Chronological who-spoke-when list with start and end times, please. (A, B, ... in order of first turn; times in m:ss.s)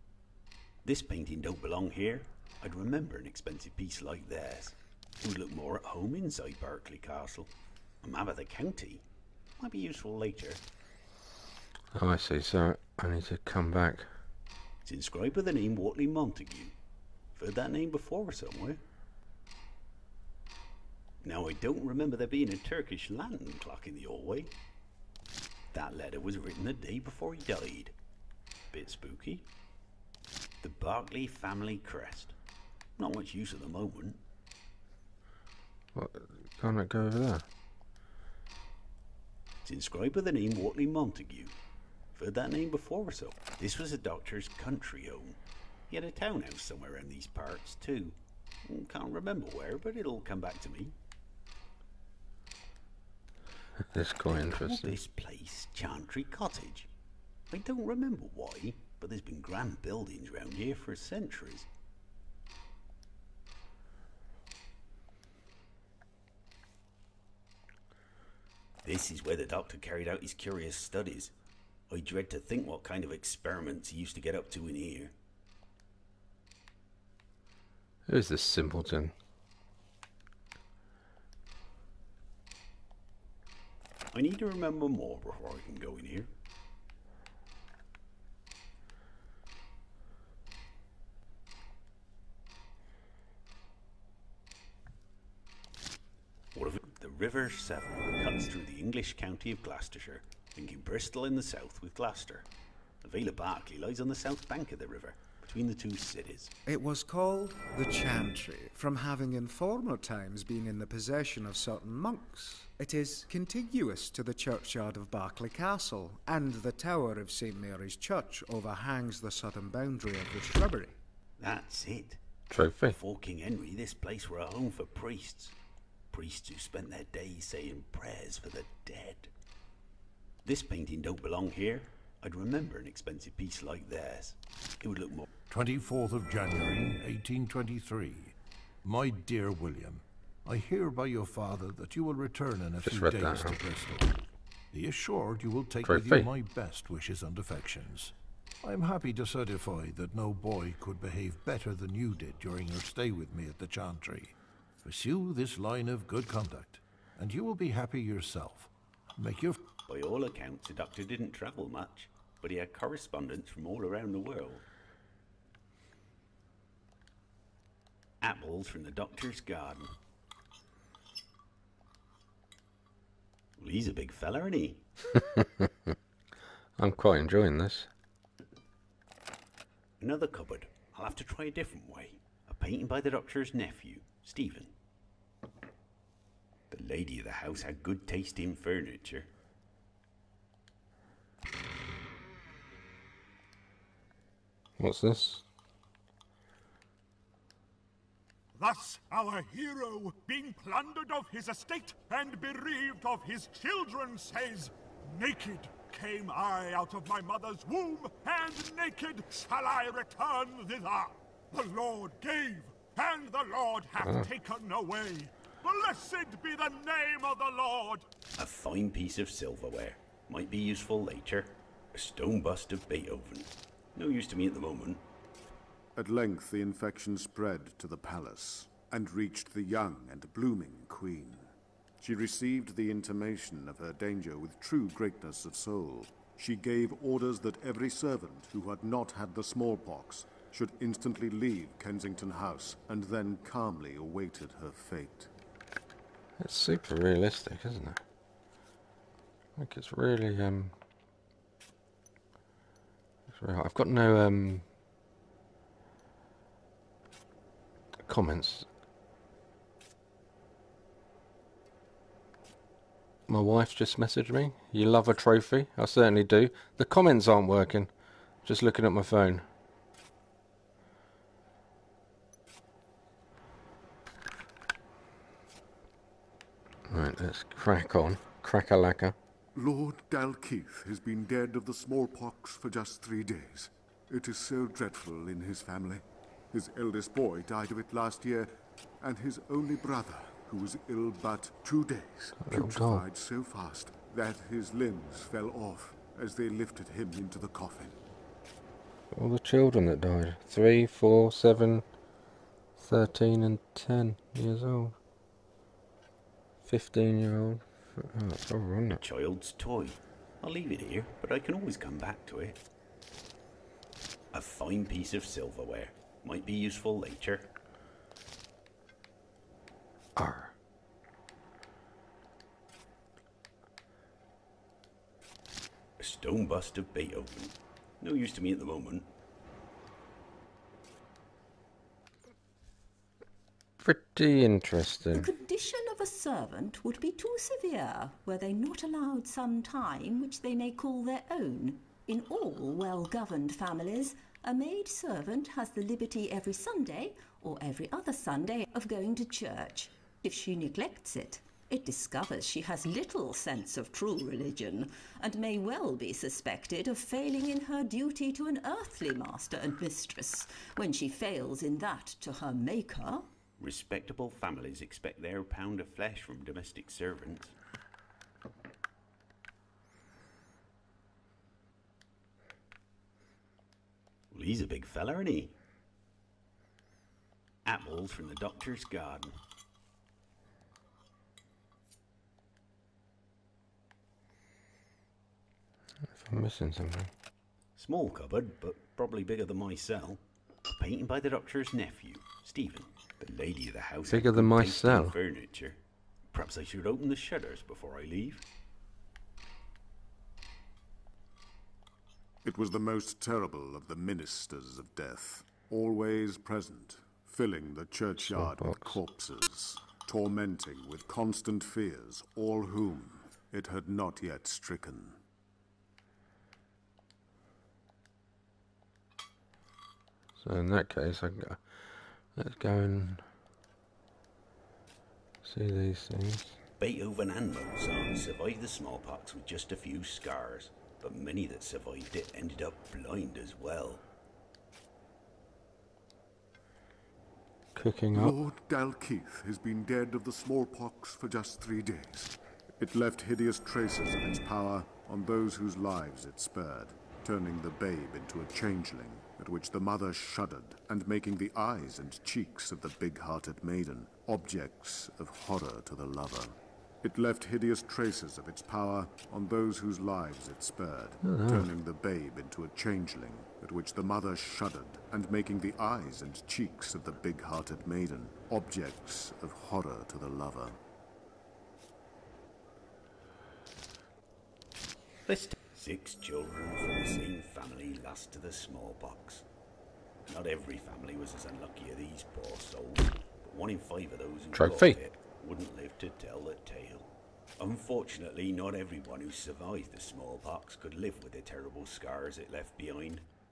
0:00.8-0:07.5 A
0:08.0-0:09.0 A
0:09.6-0:10.6 A
0:11.9-0:14.1 B
0:14.8-0:16.7 A
0:17.4-0:18.8 A
0:21.2-0:24.5 A
0:25.7-0:27.9 A
0:28.7-0:29.4 A
0:30.6-0:32.4 A
0:33.0-0:34.2 A
0:35.9-0:37.4 B
0:39.6-0:41.5 A
0:42.1-0:45.4 A
0:45.9-0:50.9 A
0:53.8-0:55.0 B
0:54.2-0:56.9 A
0:57.5-1:01.7 A
1:08.8-1:11.3 A
1:11.9-1:15.1 A
1:18.1-1:19.1 B
1:24.1-1:26.3 A
1:36.5-1:42.4 A
1:43.0-1:46.5 A
1:46.6-2:01.0 C
2:01.4-2:02.2 A
2:02.5-2:03.0 B
2:02.8-2:05.5 A
2:06.1-2:09.3 A
2:10.4-2:15.3 A
2:15.5-2:24.2 D
2:22.8-2:23.6 B
2:24.7-2:39.6 D
2:25.8-2:26.3 B
2:39.9-2:44.6 A
2:48.2-2:49.9 A
2:53.6-2:54.8 A
2:55.1-2:55.9 B
2:56.8-2:57.9 B
3:00.0-3:04.7 A
3:06.7-3:09.3 A
3:14.8-3:15.4 B
3:18.6-3:38.0 E
3:38.4-3:45.0 A
3:46.0-4:05.3 F
4:06.4-4:08.0 B
4:09.6-4:10.8 B
4:13.3-4:14.6 B
4:18.0-4:18.7 B
4:23.3-4:27.9 B
4:28.4-4:29.4 B
4:36.9-4:39.2 B
4:39.5-4:58.0 F
4:52.4-4:53.0 B
4:59.1-5:01.8 B
5:02.8-5:05.0 B
5:06.6-5:09.0 B
5:08.9-5:12.6 A
5:14.3-5:17.5 A
5:20.2-5:20.5 B
5:26.0-5:29.1 A
5:33.8-5:35.3 B
5:35.1-6:03.3 G
6:03.6-6:07.5 A
6:14.3-6:15.5 A
6:17.6-6:19.4 A
6:26.1-6:27.1 B
6:27.8-6:35.8 A
6:34.1-6:35.2 B
6:36.3-6:38.4 A
6:42.4-6:55.2 F
6:48.2-6:49.0 B
7:00.4-7:03.2 B
7:05.4-7:06.6 B
7:06.8-7:14.0 A
7:17.7-7:18.4 B
7:18.1-7:50.8 F
7:41.2-7:41.7 B
7:55.2-7:59.4 A
8:00.2-8:13.2 A
8:04.5-8:05.0 B